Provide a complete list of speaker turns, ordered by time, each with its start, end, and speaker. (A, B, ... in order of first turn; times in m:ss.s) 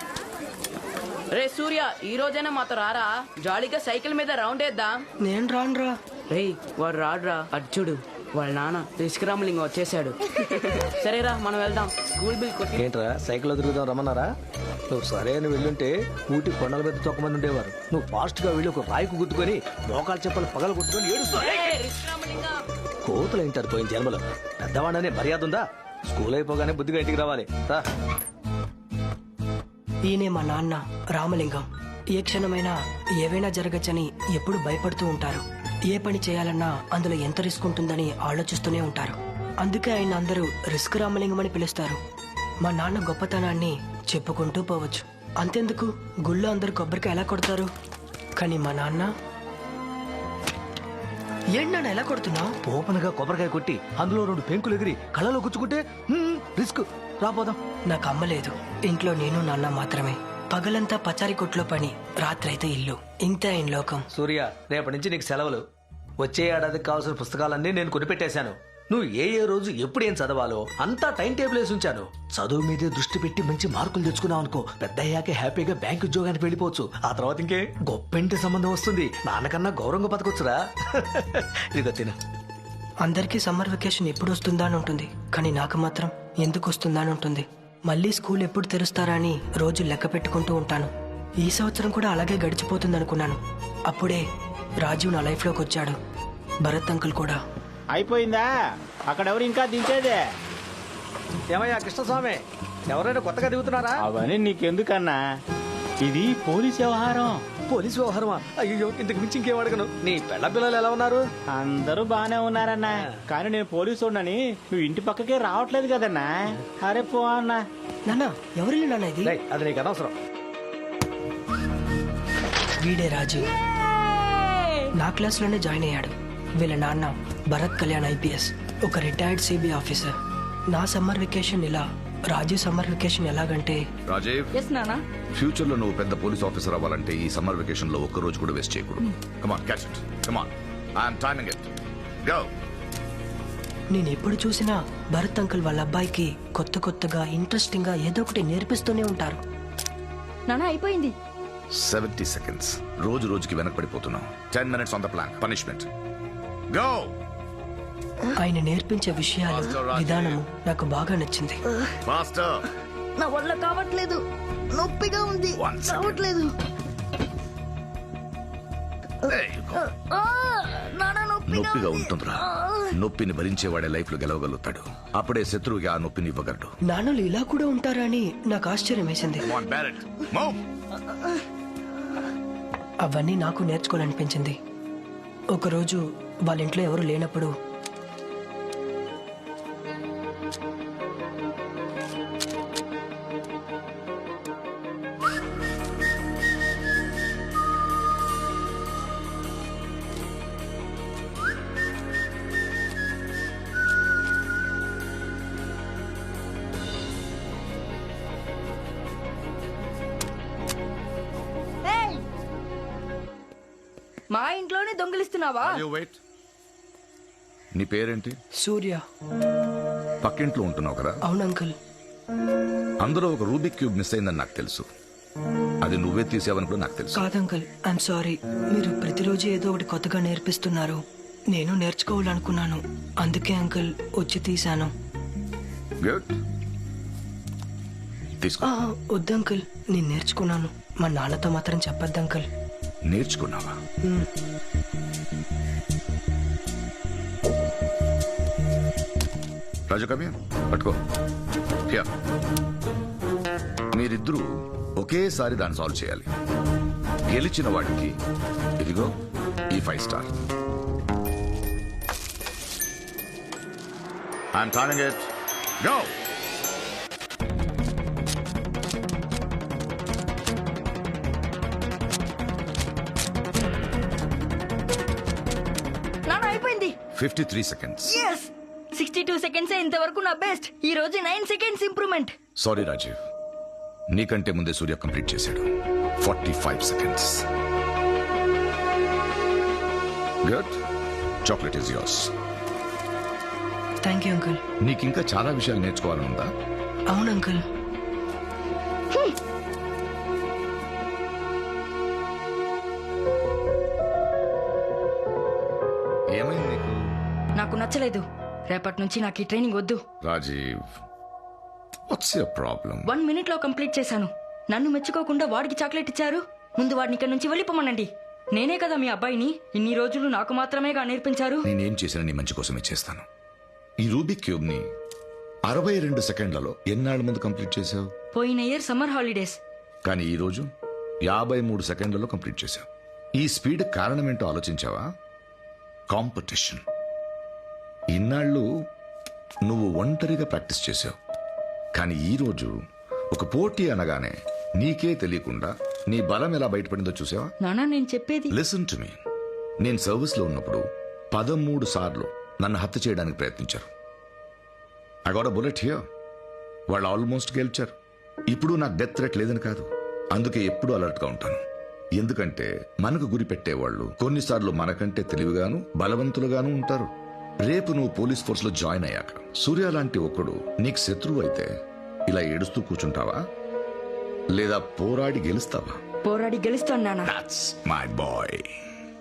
0:01.3-0:05.0 A
0:05.2-0:06.0 B
0:06.3-0:10.2 A
0:10.8-0:12.8 A
0:12.7-0:14.3 C
0:14.9-0:21.8 C
0:21.5-0:22.6 A
0:23.0-0:27.8 C
0:30.0-0:42.0 B
0:42.6-0:47.7 B
0:48.4-0:49.1 B
0:51.6-0:52.5 B
0:52.7-0:57.6 C
0:57.9-1:04.0 B
1:04.2-1:05.6 C
1:06.2-1:22.2 C
1:23.0-1:30.9 B
1:31.4-1:34.2 B
1:34.8-1:36.0 B
1:36.6-1:37.4 B
1:38.0-1:38.5 D
1:39.1-1:40.2 D
1:41.5-1:44.0 C
1:44.1-1:45.2 D
1:46.0-1:47.4 D
1:47.7-1:51.2 C
1:51.6-1:56.3 D
1:56.8-1:57.6 D
1:58.1-1:59.4 B
1:59.2-2:00.2 C
2:02.8-2:03.5 B
2:03.6-2:04.8 E
2:04.9-2:10.1 B
2:10.7-2:13.8 B
2:14.1-2:14.5 F
2:14.5-2:15.0 E
2:15.3-2:21.7 F
2:22.2-2:22.5 F
2:23.9-2:29.4 B
2:30.5-2:31.1 E
2:31.7-2:35.9 F
2:36.7-2:37.1 F
2:38.4-2:41.6 B
2:39.5-2:40.4 F
2:42.0-2:42.6 F
2:43.2-2:46.5 E
2:45.5-2:46.3 F
2:49.2-2:49.8 F
2:49.8-2:52.9 E
2:51.5-2:56.7 F
2:56.9-2:59.5 B
2:59.4-3:00.6 F
3:03.0-3:04.6 B
3:05.5-3:07.5 B
3:31.8-3:32.2 E
3:34.3-3:35.8 E
3:35.6-3:36.2 F
3:37.8-3:38.4 F
3:38.6-3:39.0 B
3:40.2-3:41.2 F
3:41.2-3:41.7 B
3:43.0-3:44.9 F
3:45.8-3:47.2 F
3:47.2-3:51.0 B
3:51.5-3:54.9 B
3:56.0-3:56.4 F
3:58.4-3:58.7 F
3:58.6-4:02.5 B
4:03.1-4:03.8 F
4:09.9-4:11.0 F
4:13.9-4:16.3 F
4:17.3-4:18.2 F
4:18.8-4:19.1 F
4:19.7-4:20.3 F
4:24.5-4:25.3 F
4:25.8-4:26.1 F
4:36.3-4:37.0 E
4:37.1-4:38.2 F
4:38.1-4:42.3 E
4:42.6-4:43.2 F
4:44.1-4:45.7 F
4:46.2-4:47.5 F
4:50.4-4:50.8 F
4:51.4-4:52.3 F
4:54.0-4:54.6 B
4:54.8-4:56.5 F
4:57.1-4:57.6 B
5:06.4-5:07.0 F
5:07.6-5:10.0 E
5:10.2-5:10.9 F
5:12.1-5:13.1 F
5:13.1-5:21.7 E
5:21.6-5:23.2 F
5:24.0-5:24.9 F
5:25.7-5:28.1 F
5:28.3-5:29.6 E
5:30.0-5:30.7 F
5:31.2-5:32.9 F
5:33.4-5:35.1 F
5:36.1-5:36.8 F
5:38.1-5:38.7 F
5:39.6-5:41.2 F
5:41.9-5:42.8 F
5:43.3-5:47.5 F
5:47.6-5:48.5 E
5:48.5-5:49.2 F
5:49.8-5:53.9 F
5:55.3-5:56.0 F
5:56.9-5:57.9 F
5:58.5-6:01.6 F
6:02.2-6:07.1 F
6:07.6-6:11.7 F
6:12.3-6:13.4 F
6:14.5-6:16.0 F
6:16.2-6:17.3 E
6:17.2-6:18.7 F